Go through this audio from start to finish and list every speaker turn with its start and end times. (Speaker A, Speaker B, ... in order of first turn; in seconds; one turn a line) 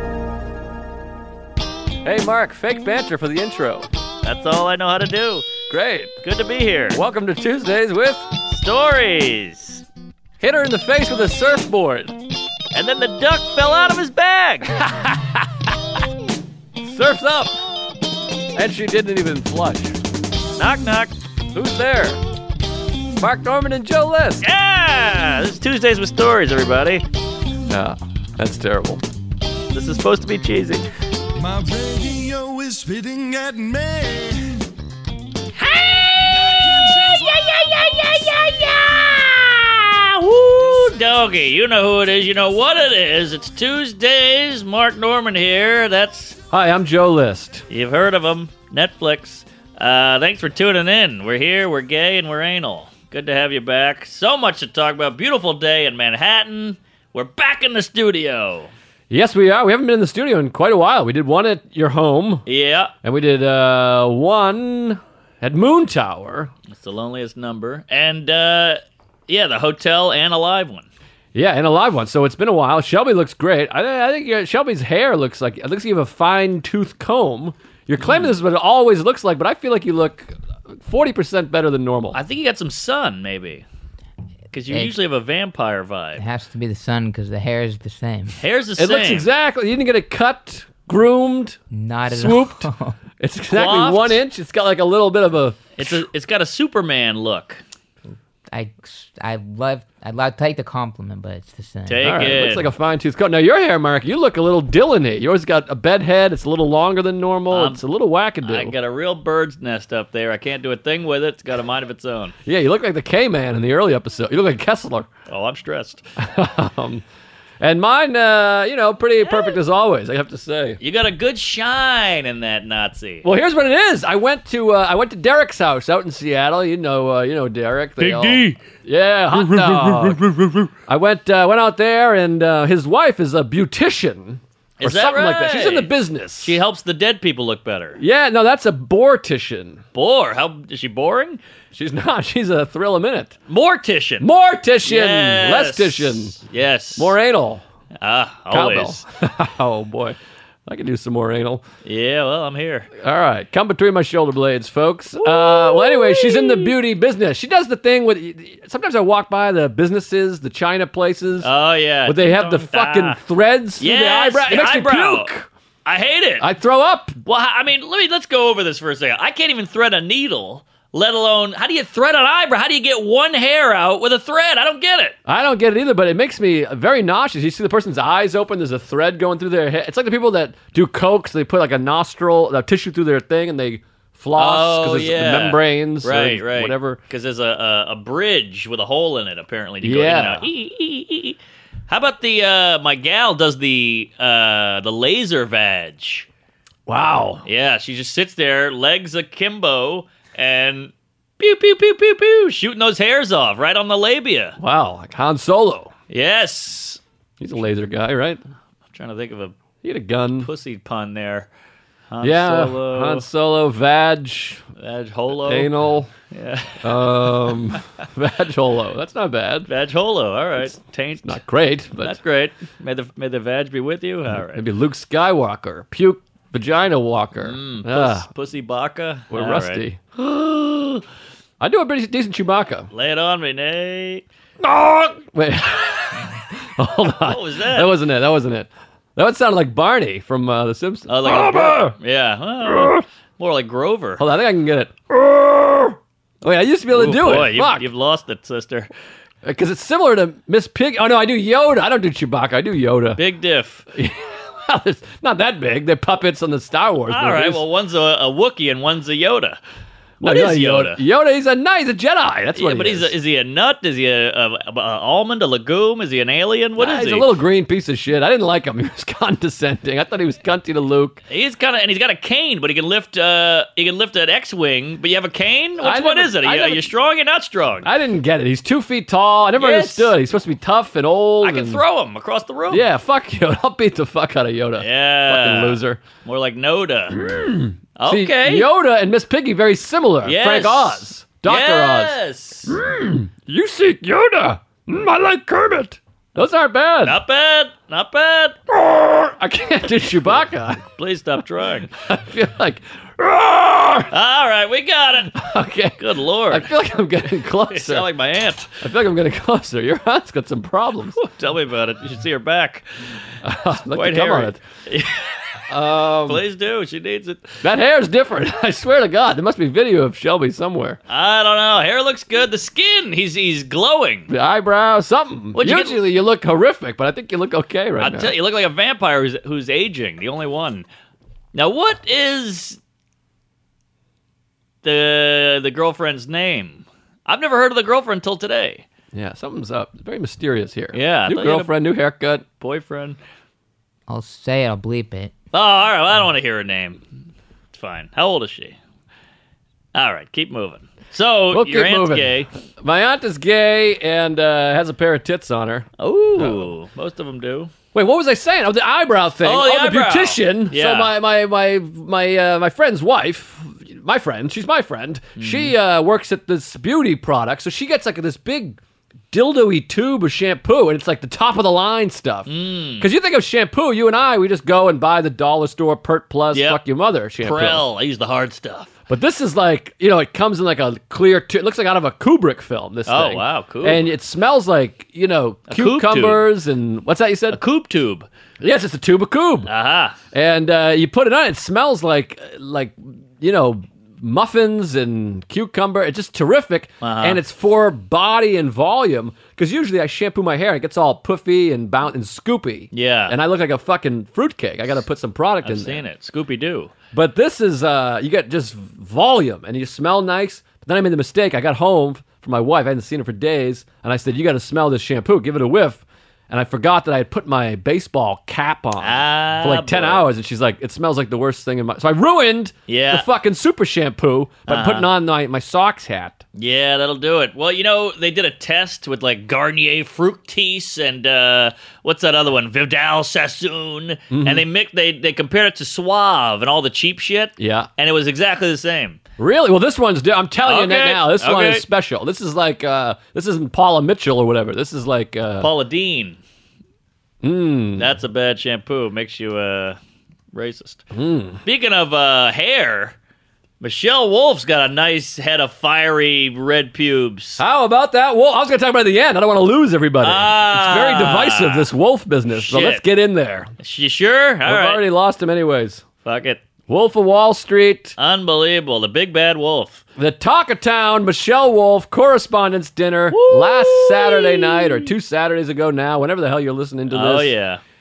Speaker A: 2.0-3.9
Speaker B: 4.2-5.5
Speaker A: 5.7-6.2
Speaker B: 6.2-7.0
Speaker A: 6.9-8.3
Speaker B: 8.5-9.8
Speaker A: 10.4-12.2
Speaker B: 12.7-14.7
Speaker A: 14.7-15.5
Speaker A: 16.8-17.5
Speaker A: 18.5-20.0
Speaker B: 20.6-21.1
Speaker A: 21.5-22.2
Speaker A: 23.1-24.5
Speaker B: 24.4-27.0
Speaker A: 27.7-29.0
Speaker B: 29.7-30.8
Speaker C: 31.4-34.6
Speaker B: 35.5-46.4
Speaker C: 36.2-38.5
Speaker A: 46.5-47.6
Speaker B: 47.7-58.7
Speaker A: 59.1-62.4
Speaker B: 62.5-62.9
Speaker A: 63.0-66.5
Speaker B: 66.7-70.9
Speaker A: 71.3-82.2
Speaker B: 78.0-78.3
Speaker B: 82.1-83.6
Speaker B: 84.5-86.2
Speaker D: 86.2-88.4
Speaker B: 88.4-89.3
Speaker A: 88.8-92.7
Speaker D: 91.7-93.0
Speaker A: 93.2-96.0
Speaker B: 93.5-94.2
Speaker B: 95.8-97.6
Speaker D: 98.5-102.0
Speaker B: 101.9-102.7
Speaker A: 102.0-108.8
Speaker B: 107.5-107.8
Speaker B: 108.4-112.3
Speaker A: 112.4-115.1
Speaker B: 115.3-116.0
Speaker A: 116.2-117.0
Speaker A: 117.6-120.8
Speaker B: 119.2-119.6
Speaker B: 120.8-123.2
Speaker A: 123.2-136.6
Speaker B: 134.8-138.0
Speaker A: 138.0-139.8
Speaker B: 139.9-141.4
Speaker A: 141.7-143.4
Speaker B: 143.5-144.3
Speaker A: 144.2-146.4
Speaker B: 144.8-147.1
Speaker A: 146.9-147.6
Speaker B: 148.0-149.0
Speaker A: 148.5-151.6
Speaker B: 151.8-152.9
Speaker A: 153.0-161.5
Speaker B: 155.2-156.7
Speaker B: 161.4-163.2
Speaker A: 162.0-165.5
Speaker B: 163.8-165.3
Speaker B: 165.8-166.5
Speaker A: 166.4-167.2
Speaker B: 167.2-175.2
Speaker A: 175.2-187.0
Speaker B: 184.3-196.3
Speaker A: 189.8-190.5
Speaker A: 196.9-197.4
Speaker B: 197.4-204.6
Speaker A: 204.6-205.9
Speaker B: 206.1-207.0
Speaker A: 207.4-208.4
Speaker B: 208.9-209.5
Speaker A: 209.8-210.5
Speaker B: 210.4-211.5
Speaker B: 212.1-213.3
Speaker A: 212.2-214.6
Speaker B: 214.8-215.7
Speaker A: 215.3-216.1
Speaker B: 216.3-217.8
Speaker A: 216.8-219.7
Speaker B: 219.7-221.4
Speaker A: 221.2-222.2
Speaker B: 222.0-224.6
Speaker A: 224.3-228.3
Speaker B: 227.4-229.8
Speaker A: 229.3-231.0
Speaker A: 231.6-232.9
Speaker B: 232.9-234.2
Speaker A: 234.6-241.9
Speaker B: 237.2-237.9
Speaker B: 241.1-244.2
Speaker A: 242.6-243.0
Speaker A: 244.2-247.9
Speaker B: 246.9-248.9
Speaker A: 249.4-253.2
Speaker B: 253.2-253.8
Speaker A: 253.9-257.6
Speaker B: 257.1-259.6
Speaker A: 260.2-263.1
Speaker B: 260.2-261.0
Speaker B: 262.5-267.3
Speaker A: 266.8-271.2
Speaker B: 271.3-277.9
Speaker A: 275.8-276.9
Speaker A: 277.8-281.8
Speaker B: 279.6-280.1
Speaker B: 281.4-282.8
Speaker A: 282.7-286.0
Speaker B: 284.8-287.3
Speaker A: 287.1-292.1
Speaker B: 288.0-288.7
Speaker B: 290.2-292.8
Speaker A: 292.7-297.2
Speaker B: 297.0-298.6
Speaker A: 298.7-300.9
Speaker B: 301.0-301.9
Speaker A: 302.0-304.1
Speaker B: 304.1-305.4
Speaker A: 305.3-308.1
Speaker B: 306.0-306.7
Speaker B: 307.6-308.8
Speaker A: 308.8-311.2
Speaker B: 311.1-312.8
Speaker A: 313.4-314.6
Speaker B: 313.7-315.3
Speaker A: 315.7-316.4
Speaker B: 316.2-317.5
Speaker A: 317.6-321.0
Speaker B: 321.1-324.3
Speaker A: 324.3-328.4
Speaker B: 325.5-326.0
Speaker B: 328.0-330.9
Speaker B: 331.5-332.8
Speaker B: 334.8-338.9
Speaker A: 339.1-342.4
Speaker B: 340.9-341.7
Speaker B: 342.6-343.2
Speaker D: 344.1-345.3
Speaker B: 345.5-347.0
Speaker B: 347.7-348.8
Speaker B: 349.9-352.5
Speaker A: 351.5-356.7
Speaker B: 356.0-357.7
Speaker A: 357.9-368.8
Speaker B: 359.4-361.1
Speaker B: 365.4-365.7
Speaker A: 369.3-377.8
Speaker B: 372.5-373.1
Speaker B: 376.5-376.8
Speaker B: 377.4-378.9
Speaker A: 379.1-387.6
Speaker B: 383.1-384.0
Speaker B: 385.7-386.4
Speaker B: 387.5-388.3
Speaker A: 388.6-389.7
Speaker B: 389.6-390.2
Speaker A: 390.3-406.0
Speaker B: 397.0-397.4
Speaker B: 402.9-403.4
Speaker B: 405.6-406.9
Speaker A: 407.1-426.4
Speaker B: 419.0-420.2
Speaker B: 422.9-423.2
Speaker B: 424.7-425.1
Speaker B: 426.5-439.2
Speaker A: 434.3-434.6
Speaker A: 437.6-437.9
Speaker A: 439.4-445.7
Speaker B: 440.6-441.8
Speaker B: 445.6-446.4
Speaker A: 447.4-448.1
Speaker B: 448.0-450.0
Speaker B: 450.5-451.0
Speaker A: 451.1-451.6
Speaker B: 451.6-453.1
Speaker B: 453.8-457.6
Speaker A: 457.6-463.7
Speaker B: 460.2-461.9
Speaker B: 462.5-463.0
Speaker B: 463.8-465.0
Speaker A: 464.6-466.0
Speaker B: 466.2-466.6
Speaker A: 466.9-468.1
Speaker B: 468.2-470.0
Speaker A: 470.1-477.5
Speaker B: 473.3-475.1
Speaker B: 477.1-477.8